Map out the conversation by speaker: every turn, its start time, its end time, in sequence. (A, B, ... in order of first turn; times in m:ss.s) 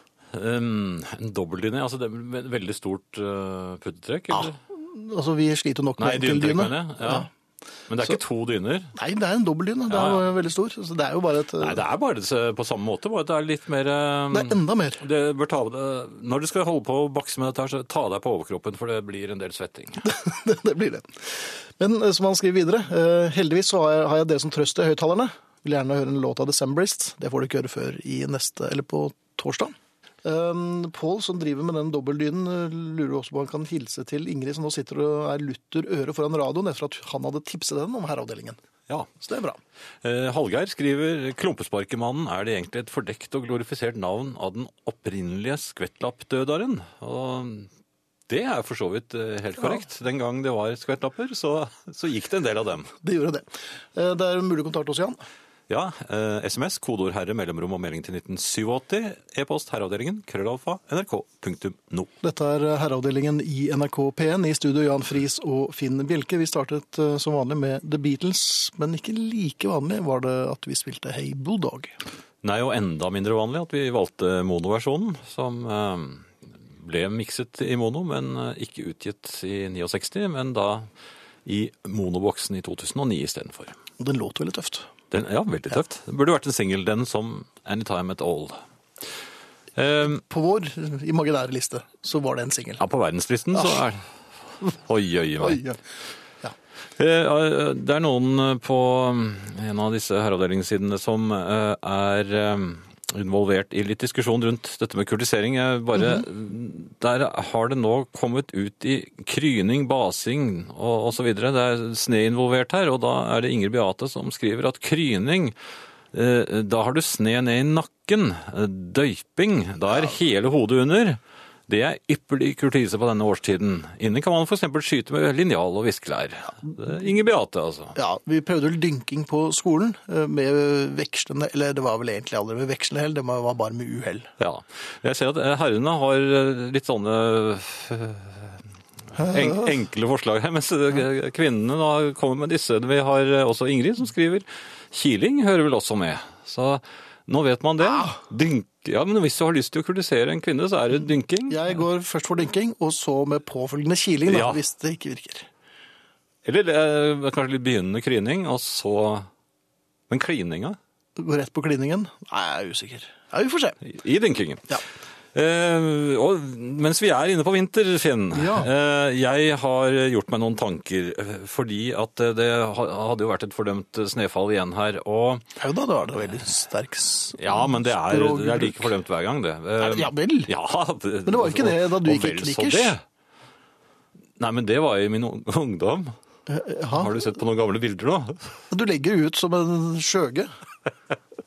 0:00.3-0:04.6 A
0:04.3-0:07.3 B
0:06.0-0:07.3 A
0:07.9-0:08.9 A
0:09.0-0:11.8 B
0:09.9-0:10.2 A
0:11.6-0:20.1 A
0:14.3-0:15.0 B
0:20.0-0:38.6 B
0:39.2-0:39.6 B
0:40.0-0:47.7 A
0:48.3-0:52.9 A
0:53.0-0:55.2 B
0:55.7-1:02.1 A
1:02.2-1:12.0 B
1:12.4-1:20.9 A
1:21.4-1:23.8 A
1:24.0-1:24.9 B
1:25.1-1:28.6 A
1:29.8-1:30.2 A
1:30.0-1:32.8 B
1:32.8-1:34.1 A
1:33.6-1:33.8 B
1:34.6-1:35.6 A
1:35.4-1:35.8 B
1:37.0-1:55.6 A
1:56.1-2:08.0 A
2:08.0-2:14.3 B
2:14.4-2:31.7 A
2:31.5-2:35.5 B
2:34.3-2:34.6 A
2:36.4-2:39.3 A
2:40.1-2:40.8 A
2:41.2-2:43.8 B
2:43.8-2:44.8 A
2:45.3-2:55.5 A
2:48.4-2:48.7 B
2:55.6-2:58.9 B
2:57.4-3:03.0 A
2:59.8-3:00.5 B
3:01.3-3:03.0 B
3:04.4-3:06.2 A
3:06.5-3:07.2 B
3:06.9-3:08.5 A
3:08.7-3:10.5 B